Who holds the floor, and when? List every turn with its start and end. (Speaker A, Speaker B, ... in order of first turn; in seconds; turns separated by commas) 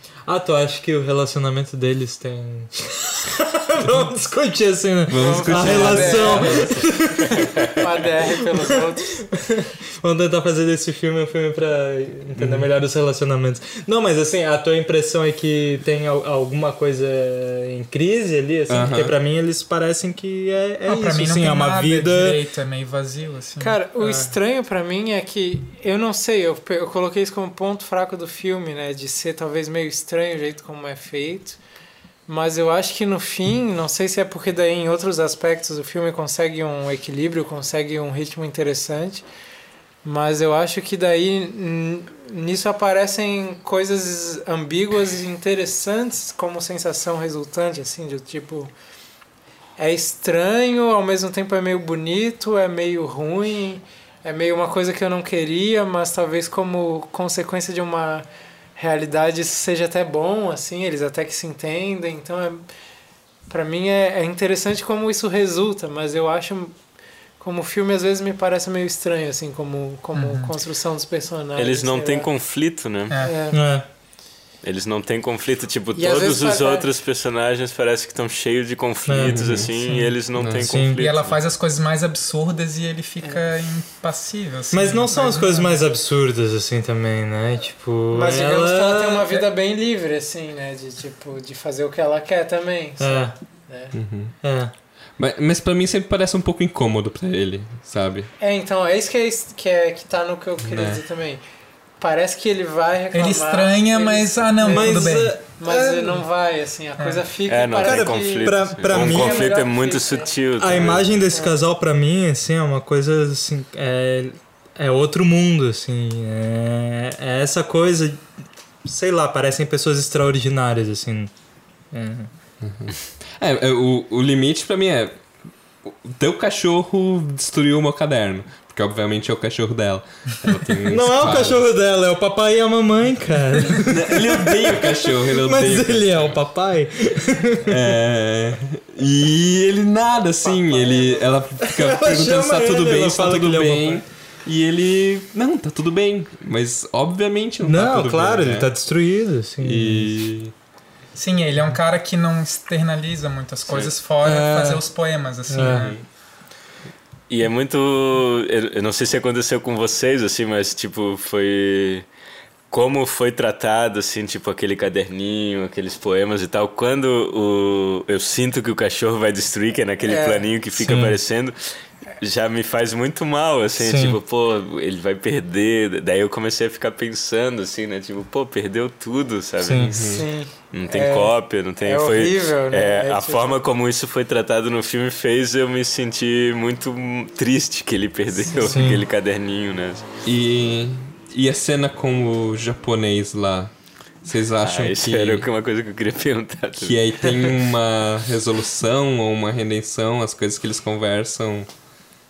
Speaker A: 0.3-7.7, Speaker B: 5.1-6.9, Speaker C: 5.2-6.8, Speaker C: 7.5-9.4, Speaker A: 8.4-22.4, Speaker B: 12.4-12.7, Speaker B: 18.7-19.1, Speaker D: 20.9-23.8, Speaker C: 23.6-31.6, Speaker A: 24.0-24.3, Speaker C: 32.3-39.2, Speaker C: 40.0-48.7, Speaker C: 49.8-62.6, Speaker C: 63.5-66.8, Speaker C: 67.4-72.3, Speaker D: 70.1-70.5, Speaker E: 71.6-73.2, Speaker D: 73.1-73.4, Speaker C: 73.2-73.6, Speaker A: 73.5-73.9, Speaker E: 74.6-81.4, Speaker C: 76.0-76.9, Speaker A: 79.1-79.6, Speaker B: 79.3-79.7, Speaker B: 80.4-80.8, Speaker A: 80.7-81.0, Speaker D: 81.0-85.8, Speaker A: 84.7-89.3, Speaker C: 88.1-94.0, Speaker A: 93.0-93.3, Speaker B: 93.9-94.4, Speaker A: 94.4-94.7, Speaker B: 95.2-98.3, Speaker C: 98.4-101.4, Speaker B: 100.7-101.0, Speaker C: 102.0-110.3, Speaker D: 103.1-105.3, Speaker A: 104.6-106.2, Speaker E: 107.5-111.2, Speaker A: 107.8-109.6, Speaker A: 110.6-118.3, Speaker A: 118.8-121.3, Speaker A: 121.9-122.3, Speaker B: 122.6-125.3, Speaker B: 125.8-131.6, Speaker A: 130.9-137.7, Speaker B: 133.7-136.4, Speaker B: 137.7-148.7, Speaker C: 140.4-141.4, Speaker A: 141.6-144.0, Speaker A: 147.6-150.1, Speaker B: 149.6-150.5, Speaker D: 151.2-156.0, Speaker E: 153.7-153.9, Speaker A: 154.2-154.8, Speaker A: 155.5-156.0, Speaker B: 155.7-156.0, Speaker E: 157.3-162.1, Speaker E: 162.7-190.1, Speaker C: 170.1-170.5, Speaker A: 170.8-171.2, Speaker A: 173.8-174.2, Speaker A: 179.6-180.0, Speaker B: 179.9-180.2, Speaker C: 180.1-183.5, Speaker C: 188.4-188.9, Speaker A: 188.7-189.1, Speaker B: 190.2-195.5, Speaker E: 194.6-197.6, Speaker B: 196.8-201.7